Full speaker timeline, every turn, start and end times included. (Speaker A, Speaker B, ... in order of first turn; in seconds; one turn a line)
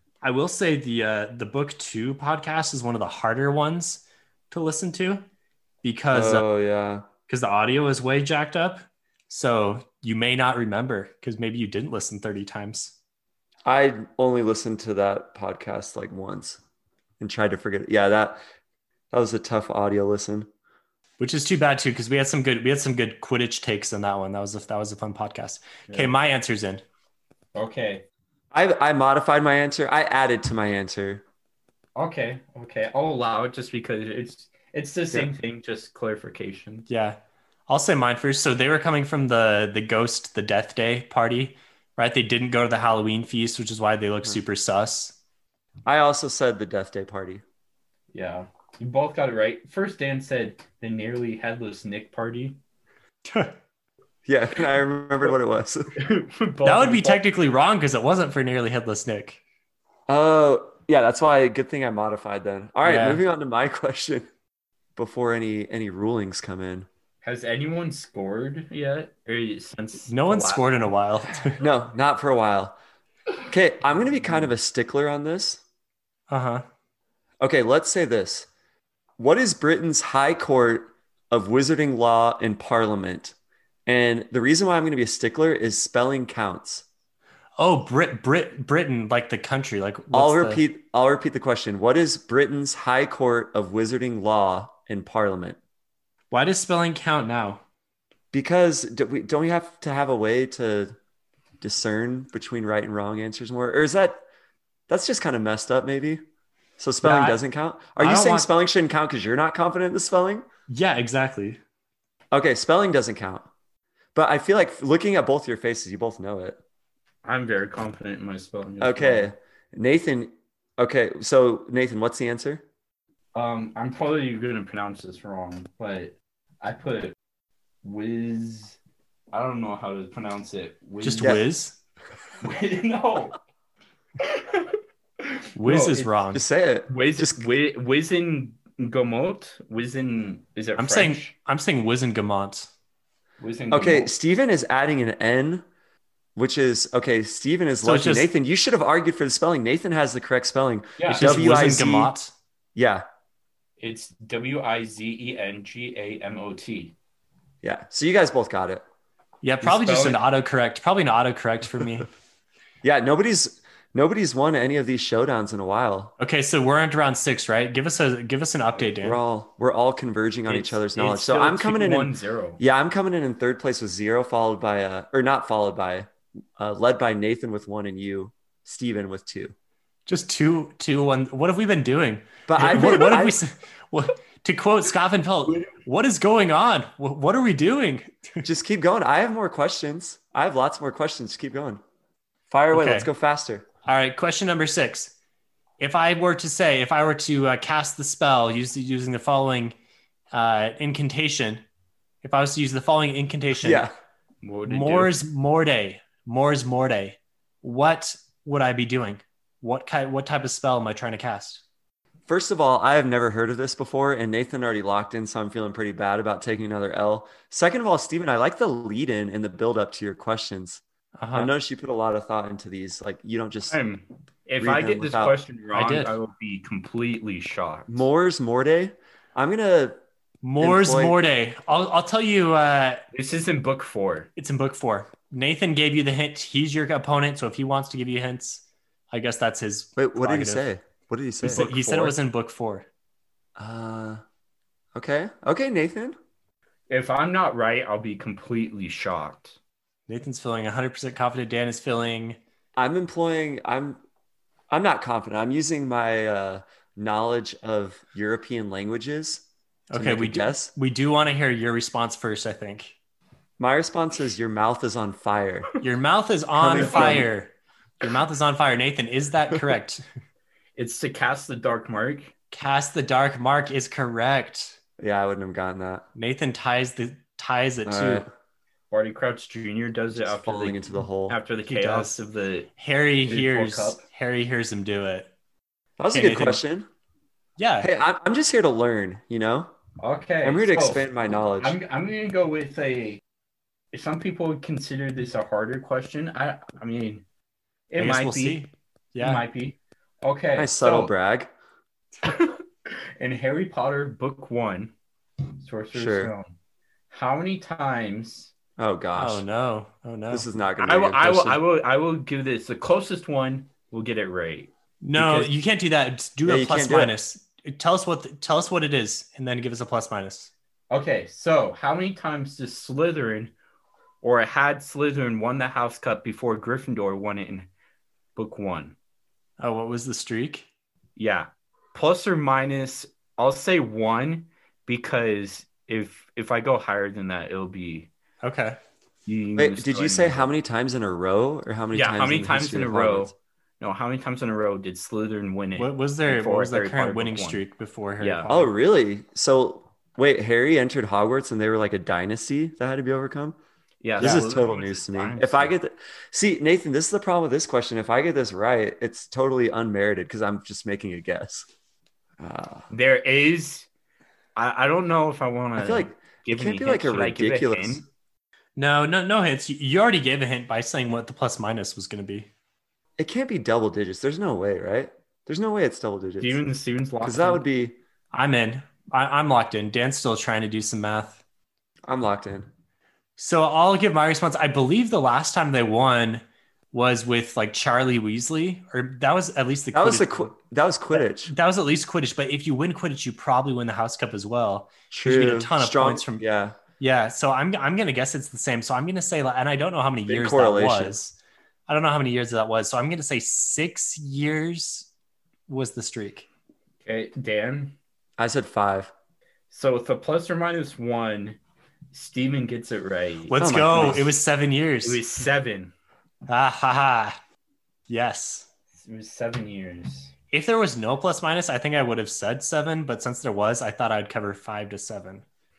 Speaker A: 0.2-5.2
Speaker A: 5.8-6.5
Speaker B: 6.1-7.0
Speaker A: 7.3-12.9
Speaker B: 13.6-16.6
Speaker B: 17.2-18.4
Speaker B: 19.1-20.5
Speaker A: 21.2-26.8
Speaker C: 27.5-28.0
Speaker B: 28.5-31.2
Speaker C: 31.9-36.9
Speaker A: 36.9-37.2
Speaker A: 37.7-45.2
Speaker B: 45.9-47.4
Speaker C: 48.1-52.6
Speaker A: 53.2-53.5
Speaker B: 54.2-55.9
Speaker C: 56.0-57.2
Speaker A: 56.6-59.4
Speaker B: 60.1-64.3
Speaker A: 62.8-63.2
Speaker B: 65.0-66.9
Speaker C: 67.2-70.7
Speaker A: 70.1-71.6
Speaker B: 71.6-72.8
Speaker B: 73.5-75.6
Speaker A: 76.3-76.6
Speaker B: 77.4-78.5
Speaker B: 79.2-83.3
Speaker B: 83.9-86.8
Speaker A: 87.6-90.6
Speaker B: 90.1-95.6
Speaker A: 96.3-97.6
Speaker B: 98.3-101.0
Speaker B: 101.6-104.2
Speaker B: 104.9-106.2
Speaker B: 106.8-110.5
Speaker A: 107.0-107.4
Speaker A: 108.0-108.5
Speaker A: 110.7-111.6
Speaker B: 112.3-113.5
Speaker B: 114.1-116.6
Speaker C: 117.2-119.3
Speaker B: 118.8-122.6
Speaker C: 123.3-127.1
Speaker C: 127.8-128.8
Speaker C: 129.3-131.4
Speaker A: 131.0-131.8
Speaker C: 132.4-133.4
Speaker C: 134.2-136.1
Speaker A: 135.6-136.4
Speaker B: 136.3-137.4
Speaker C: 136.9-141.3
Speaker A: 140.8-142.7
Speaker C: 143.4-144.1
Speaker B: 143.7-145.6
Speaker B: 146.3-152.1
Speaker A: 147.8-148.3
Speaker C: 151.0-151.4
Speaker A: 151.1-152.3
Speaker B: 152.7-153.0
Speaker C: 153.8-156.9
Speaker B: 157.6-158.8
Speaker A: 159.4-162.1
Speaker C: 159.6-160.2
Speaker B: 162.8-166.1
Speaker A: 166.2-169.2
Speaker B: 169.0-179.5
Speaker C: 170.5-172.6
Speaker A: 180.1-188.4
Speaker B: 182.5-183.4
Speaker B: 188.4-191.8
Speaker B: 192.5-193.6
Speaker A: 192.7-193.1
Speaker A: 193.8-195.1
Speaker A: 195.8-199.7
Speaker A: 200.3-201.6
Speaker A: 202.2-203.9
Speaker B: 203.6-203.9
Speaker C: 204.4-205.1
Speaker A: 204.7-211.6
Speaker B: 212.3-220.8
Speaker A: 221.2-221.5
Speaker B: 221.3-223.8
Speaker C: 223.7-228.1
Speaker B: 224.6-225.4
Speaker A: 225.7-226.2
Speaker B: 227.9-230.0
Speaker A: 230.4-233.0
Speaker B: 230.6-231.1
Speaker C: 233.1-234.3
Speaker A: 234.4-240.7
Speaker B: 240.0-241.7
Speaker A: 241.4-242.8
Speaker C: 241.4-242.2
Speaker B: 243.6-244.2
Speaker B: 244.9-246.2
Speaker C: 246.9-249.6
Speaker A: 250.1-252.4
Speaker B: 252.8-254.0
Speaker B: 254.7-260.7
Speaker A: 259.9-262.9
Speaker B: 263.6-265.7
Speaker A: 265.8-270.0
Speaker B: 266.6-267.3
Speaker C: 266.8-267.2
Speaker C: 270.8-272.3
Speaker A: 272.5-274.8
Speaker B: 275.0-276.0
Speaker A: 276.1-278.2
Speaker B: 277.9-278.3
Speaker C: 278.9-282.7
Speaker B: 280.2-281.4
Speaker A: 281.7-282.2
Speaker A: 282.8-285.3
Speaker C: 283.3-284.0
Speaker B: 286.0-286.9
Speaker A: 286.1-286.6
Speaker A: 287.6-287.9
Speaker B: 287.8-289.7
Speaker C: 290.0-291.0
Speaker B: 290.4-291.8
Speaker C: 291.6-293.2
Speaker C: 293.9-297.2
Speaker C: 297.9-298.6
Speaker A: 298.0-299.4
Speaker C: 299.2-301.1
Speaker B: 300.6-301.5
Speaker C: 302.2-304.9
Speaker C: 305.6-306.5
Speaker B: 305.9-306.3
Speaker C: 307.1-308.5
Speaker B: 308.8-309.4
Speaker A: 309.1-310.5
Speaker B: 310.3-311.6
Speaker C: 310.8-315.5
Speaker A: 315.0-320.5
Speaker B: 316.4-317.1
Speaker C: 320.9-323.5
Speaker C: 324.2-327.7
Speaker C: 328.4-328.9
Speaker A: 329.6-330.7
Speaker C: 331.2-338.1
Speaker A: 338.4-338.8
Speaker C: 339.2-340.5
Speaker B: 339.6-343.3
Speaker C: 341.9-347.6
Speaker A: 345.8-348.7
Speaker C: 348.2-348.4
Speaker B: 348.5-353.6
Speaker C: 354.0-355.7
Speaker B: 354.2-361.7
Speaker A: 354.2-354.5
Speaker B: 362.4-362.9
Speaker C: 362.9-363.9
Speaker C: 364.6-368.0
Speaker B: 365.8-368.0
Speaker A: 368.8-372.5
Speaker B: 373.2-376.6
Speaker C: 376.4-377.6
Speaker B: 377.2-378.0
Speaker A: 378.3-381.4
Speaker B: 382.1-382.7
Speaker A: 383.4-390.5
Speaker B: 389.9-391.5
Speaker A: 391.1-396.4
Speaker B: 395.1-396.8
Speaker A: 397.0-401.4
Speaker B: 400.3-401.1
Speaker A: 401.9-405.1
Speaker A: 405.7-406.5
Speaker C: 407.0-407.9
Speaker B: 408.4-409.1
Speaker C: 409.7-411.6
Speaker C: 412.1-414.2
Speaker A: 413.5-415.2
Speaker B: 413.6-414.3
Speaker C: 415.0-415.9
Speaker A: 416.5-417.4
Speaker A: 418.1-418.7
Speaker C: 418.9-420.3
Speaker A: 420.5-425.4